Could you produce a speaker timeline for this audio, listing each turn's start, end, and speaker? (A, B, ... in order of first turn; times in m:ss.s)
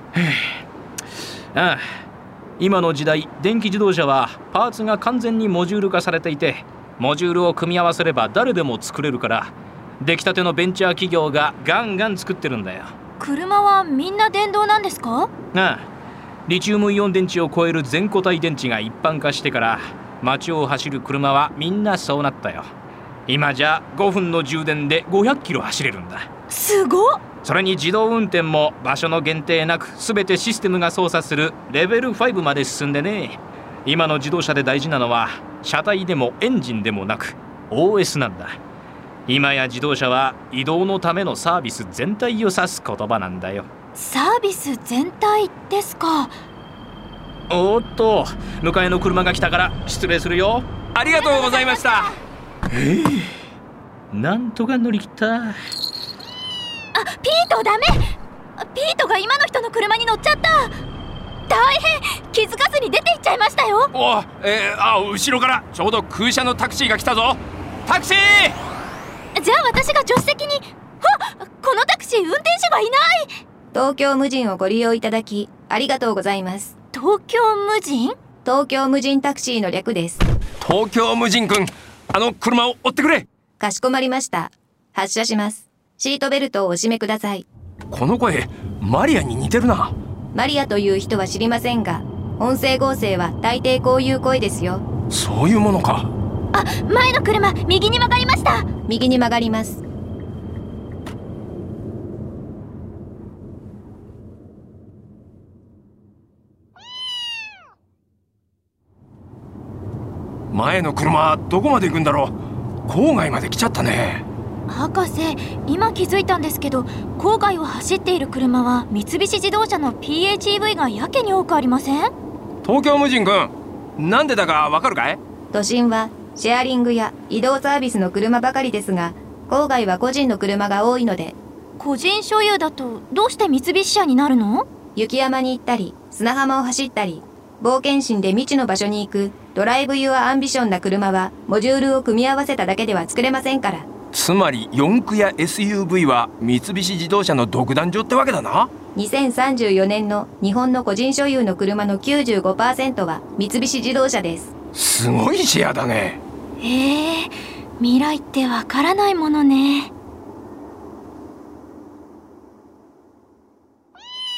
0:00.1-0:00.6 A
0:01.5-0:01.8 A
0:02.6-0:12.9 A
0:13.2-0:15.3 B
0:15.5-0:15.8 A
0:16.5-0:22.7 A
0:23.3-0:26.3 A
0:26.5-0:27.2 B
0:27.4-0:38.6 A
0:39.3-0:43.7 A
0:44.0-0:46.3 B
0:47.5-0:50.7 A
0:50.9-0:52.1 C
0:51.3-0:51.8 B
0:52.7-0:53.3 C
0:54.1-0:55.6 A
0:56.9-0:58.0 B
0:58.6-1:00.7 B
1:01.5-1:03.9 B
1:03.9-1:08.6 C
1:09.4-1:13.3 B
1:13.7-1:16.7 D
1:16.9-1:18.1 B
1:18.4-1:20.2 D
1:20.6-1:23.3 C
1:23.6-1:27.4 D
1:27.9-1:29.9 C
1:30.3-1:34.8 D
1:35.1-1:36.1 C
1:36.5-1:38.6 B
1:38.9-1:39.8 D
1:50.5-1:54.2 C
1:54.7-2:02.1 B
2:02.6-2:05.2 C
2:05.5-2:11.4 D
2:11.8-2:14.7 B
2:15.0-2:23.9 D
2:24.1-2:28.7 C
2:28.9-2:34.5 D
2:34.7-2:36.2 C
2:36.6-2:39.9 B